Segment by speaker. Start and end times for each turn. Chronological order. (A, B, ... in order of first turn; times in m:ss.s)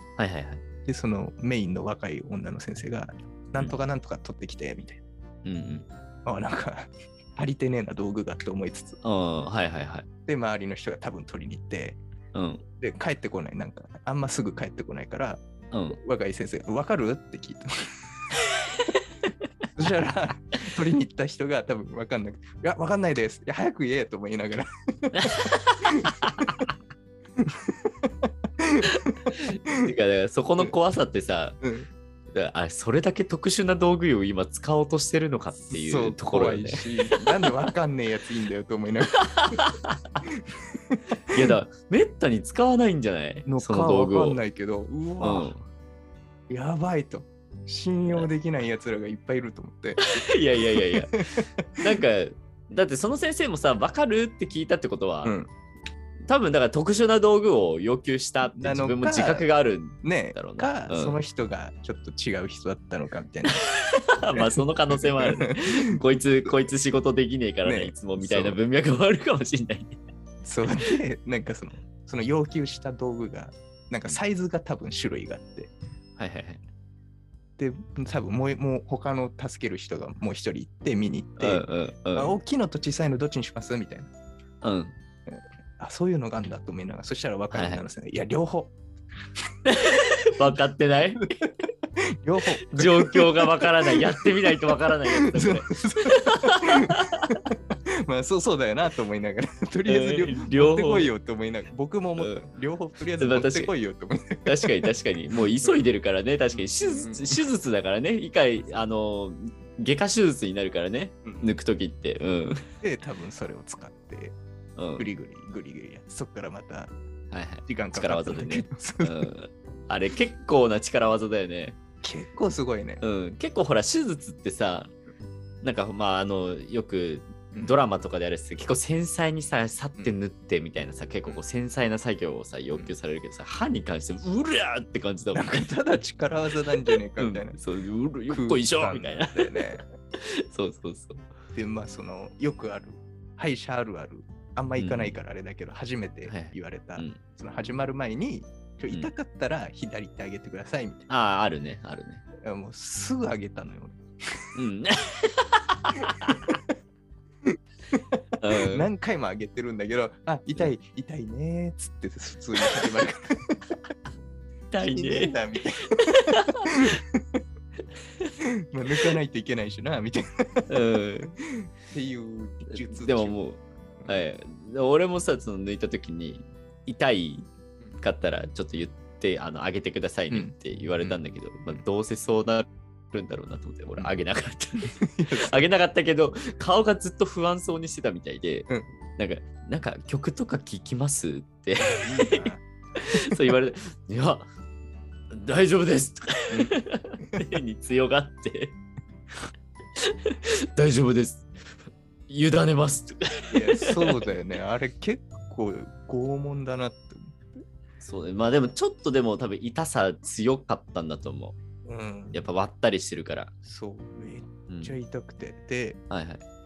0:00.2-0:00.6 A
0:00.8-0:05.0 B
0:05.4-0:05.9 A
0:06.2-0:09.0 B
0:09.0-0:10.1 A
0:10.3-0:12.0 B
0:12.3-0:12.6 A
0:12.8-0:18.3 B
0:15.7-0:16.0 A
0:19.8-0:26.6 B
0:25.1-0:26.6 A
0:27.4-0:29.9 B
0:28.9-0:31.6 A
0:31.6-0:31.9 B
0:32.3-0:37.4 A
0:35.7-0:39.6 B
0:39.3-0:40.0 A
0:40.2-0:41.0 B
0:41.3-0:44.4 A
0:43.4-0:45.5 B
0:45.2-0:45.6 A
0:46.5-0:50.2 B
0:50.0-0:55.4 A
0:50.8-0:51.6 B
0:55.2-0:55.5 B
0:56.3-1:01.2 A
0:58.5-0:59.5 B
1:00.0-1:03.6 B
1:03.5-1:10.0 A
1:04.4-1:05.8 B
1:07.6-1:08.6 B
1:10.4-1:15.7 B
1:16.2-1:16.6 A
1:17.6-1:24.1 B
1:21.4-1:22.4 A
1:24.6-1:25.0 A
1:25.3-1:28.7 B
1:27.5-1:27.8 A
1:29.6-1:31.3 A
1:31.4-1:34.3 B
1:32.6-1:37.4 A
1:35.1-1:44.9 B
1:39.8-1:41.1 A
1:42.2-1:42.4 A
1:43.2-1:43.7 A
1:44.4-1:52.6 A
1:46.5-1:47.4 B
1:51.2-1:51.5 B
1:52.8-1:54.4 B
1:54.8-1:55.1 A
1:55.0-1:56.9 B
1:57.3-2:01.8 A
1:57.6-1:59.3 B
2:02.0-2:03.0 B
2:03.0-2:04.9 A
2:05.6-2:16.0 A
2:15.3-2:17.6 B
2:16.7-2:21.3 A
2:18.3-2:19.8 B
2:21.5-2:31.1 B
2:24.8-2:25.2 A
2:26.2-2:27.2 A
2:31.1-2:32.2 A
2:32.4-2:34.5 B
2:34.5-2:36.4 A
2:36.3-2:36.6 B
2:38.3-2:38.9 A
2:38.5-2:43.8 B
2:44.7-2:45.4 A
2:44.8-2:47.4 B
2:46.0-2:46.7 A
2:48.4-2:53.4 B
2:50.7-2:51.3 A
2:52.6-2:57.5 A
2:58.0-3:14.5 A
3:00.3-3:01.8 B
3:05.0-3:05.6 B
3:12.0-3:12.6 B
3:15.3-3:18.7 A
3:16.5-3:16.8 B
3:20.0-3:21.5 A
3:22.3-3:24.2 A
3:23.5-3:27.6 B
3:28.0-3:31.5 A
3:31.8-3:32.4 B
3:32.3-3:33.5 A
3:33.6-3:36.0 B
3:34.7-3:34.9 A
3:36.1-3:36.4 A